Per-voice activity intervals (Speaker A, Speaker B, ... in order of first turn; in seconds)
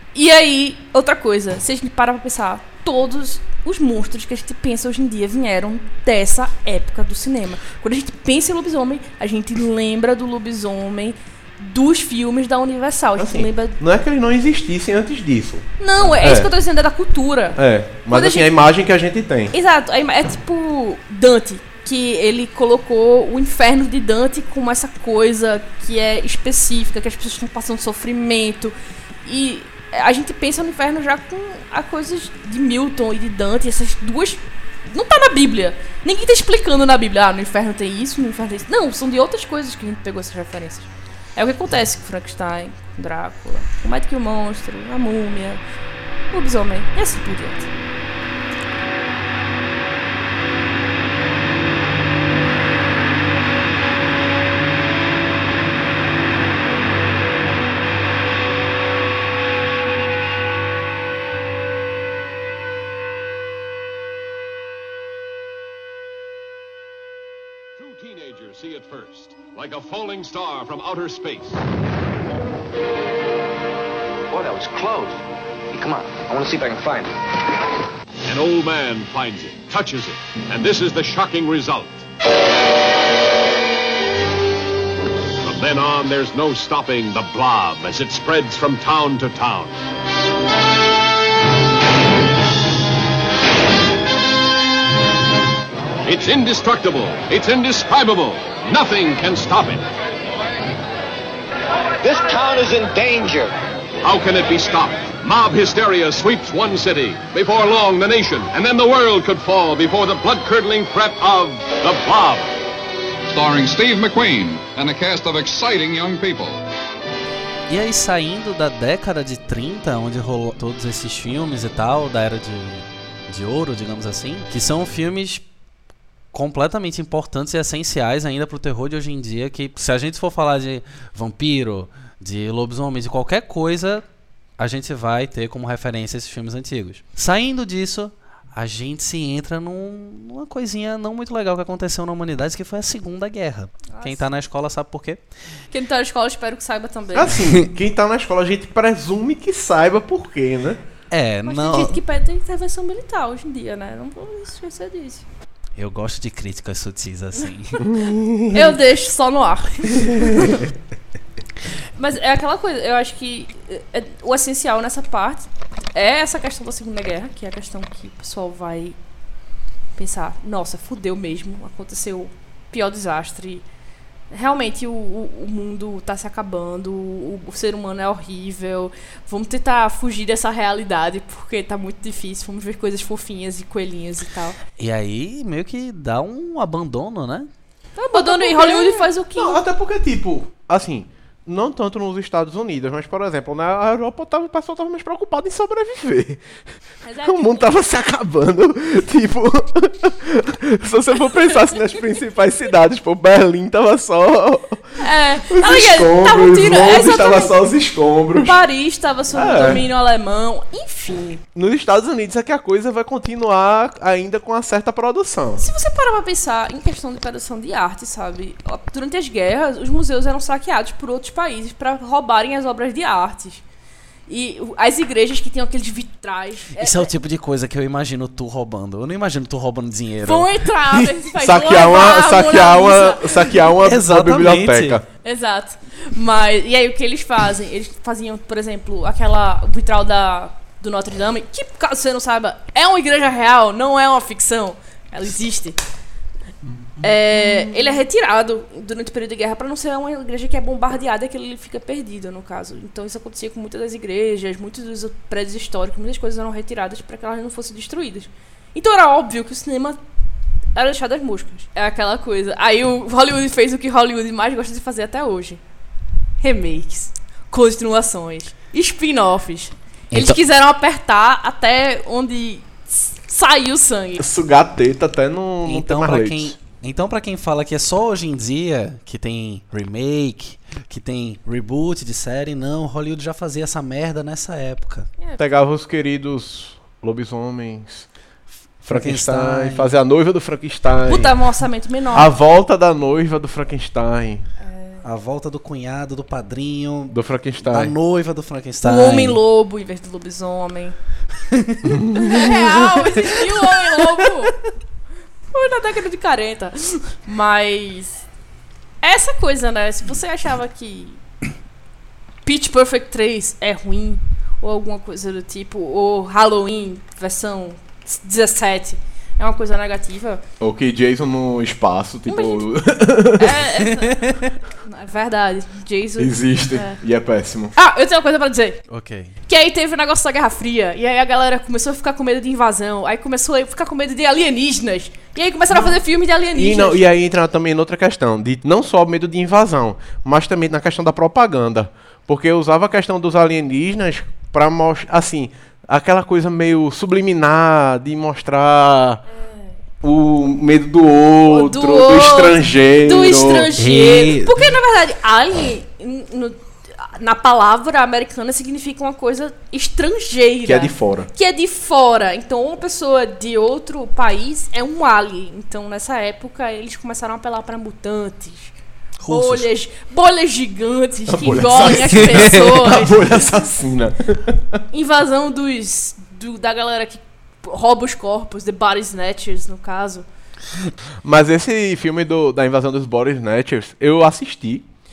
Speaker A: 0.1-13.8, 15.8-18.5, 19.5-45.6, 46.3-47.7, 143.9-144.2, 145.7-147.3, 151.4-155.2, 158.5-160.6, 161.9-168.9, 169.9-173.6, 174.3-184.6, 188.0-189.6, 197.0-197.7, 205.0-207.6, 208.4-211.4, 215.6-223.6, 224.3-227.1, 230.2-233.6, 235.2-245.8, 247.0-260.0, 260.7-265.6, 266.4-274.2, 291.1-292.3, 294.6-295.0, 298.8-300.9, 302.1-304.6, 305.5-308.2, 309.0-311.2, 312.4-320.4, 322.2-322.7, 323.3-327.0, 327.7-328.8, 329.5-337.1, 351.5-368.8, 369.3-373.2, 374.9-380.3
Speaker B: 13.2-16.5, 17.6-19.5, 147.1-150.8, 157.8-158.8, 160.0-160.4, 188.1-196.4, 197.2-204.9, 205.5-208.6, 209.3-209.8, 211.5-215.6, 231.4-235.0, 274.2-276.5, 285.4-288.1, 288.8-291.4, 292.1-294.4, 297.1-297.9, 301.9-302.8, 320.6-323.6, 326.2-327.7, 335.7-336.0, 336.5-349.2, 350.0-353.7, 360.6-361.3, 371.3-374.6, 381.2-384.9
Speaker C: 67.8-71.6, 78.3-82.0, 85.4-89.8, 96.0-99.8, 104.0-112.5
Speaker D: 74.3-77.1, 102.0-103.5
Speaker E: 113.3-116.6
Speaker F: 117.7-125.4, 126.3-134.0, 134.6-145.2, 151.1-152.0, 155.8-157.8, 184.8-187.5, 226.8-231.1, 233.8-235.0, 270.1-270.4, 275.6-285.1, 288.8-289.9, 295.0-299.4, 301.6-301.9, 328.9-329.3, 353.8-354.7, 369.2-369.6